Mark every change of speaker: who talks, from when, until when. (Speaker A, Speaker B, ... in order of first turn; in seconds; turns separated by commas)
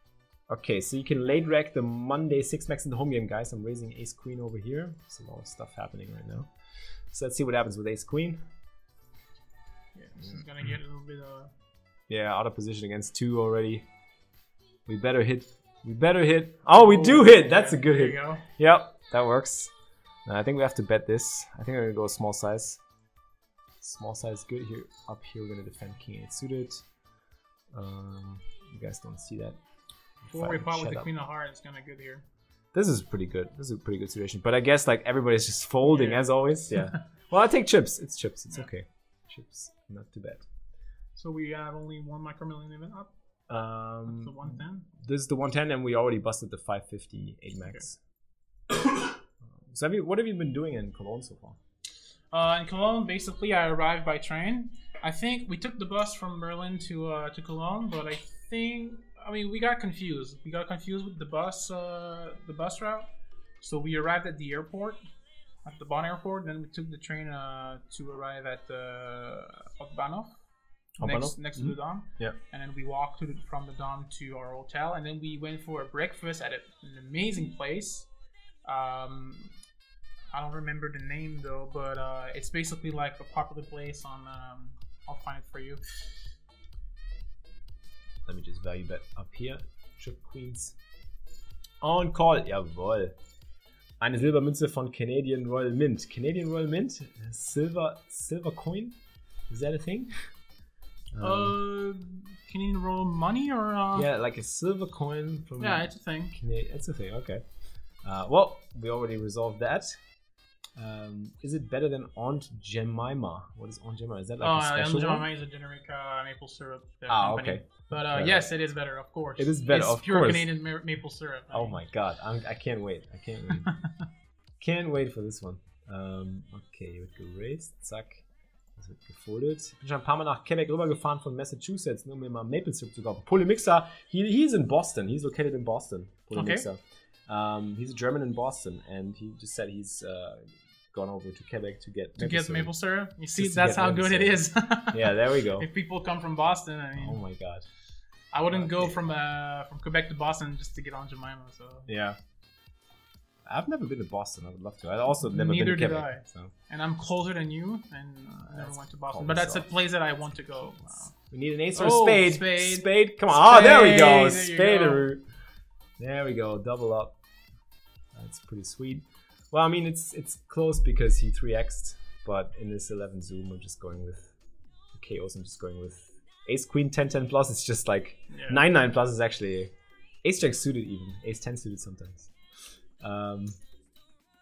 Speaker A: 0.5-6.5, Speaker A: 7.1-8.4, Speaker B: 9.9-11.5, Speaker A: 12.1-13.9, Speaker A: 14.9-19.7, Speaker B: 16.7-18.4, Speaker A: 20.3-22.8, Speaker A: 23.8-26.9, Speaker A: 27.7-29.6, Speaker A: 30.2-31.1, Speaker B: 30.3-32.2, Speaker A: 32.7-40.5, Speaker B: 35.9-36.3, Speaker B: 41.2-43.1, Speaker A: 43.5-48.0, Speaker B: 44.1-44.9, Speaker A: 49.5-51.6, Speaker B: 52.3-63.1, Speaker B: 63.6-65.0, Speaker B: 65.6-70.4, Speaker A: 71.0-72.4, Speaker B: 71.0-78.1, Speaker B: 78.7-79.5, Speaker B: 80.3-86.0, Speaker A: 88.3-90.8, Speaker A: 91.8-93.2, Speaker A: 94.0-99.0, Speaker A: 99.5-100.3, Speaker A: 101.1-101.5, Speaker B: 101.2-104.1, Speaker A: 104.0-107.4, Speaker B: 105.6-106.3, Speaker A: 108.0-110.0, Speaker A: 110.8-115.3, Speaker B: 114.4-121.8, Speaker A: 117.1-118.5, Speaker A: 119.4-120.5, Speaker A: 121.5-123.7, Speaker A: 124.6-128.2, Speaker A: 128.8-142.7, Speaker B: 136.3-136.6, Speaker B: 142.2-147.2, Speaker A: 143.4-144.4, Speaker A: 144.9-145.7, Speaker A: 147.0-147.7, Speaker B: 148.3-151.9, Speaker A: 148.5-149.0, Speaker A: 151.9-152.2, Speaker A: 153.4-156.5, Speaker B: 155.3-161.1, Speaker A: 158.5-159.7, Speaker A: 161.1-165.2, Speaker B: 161.8-165.0, Speaker A: 166.0-167.2, Speaker A: 168.1-174.4, Speaker A: 174.9-179.7, Speaker B: 178.3-178.6, Speaker A: 180.2-182.3, Speaker A: 183.0-183.6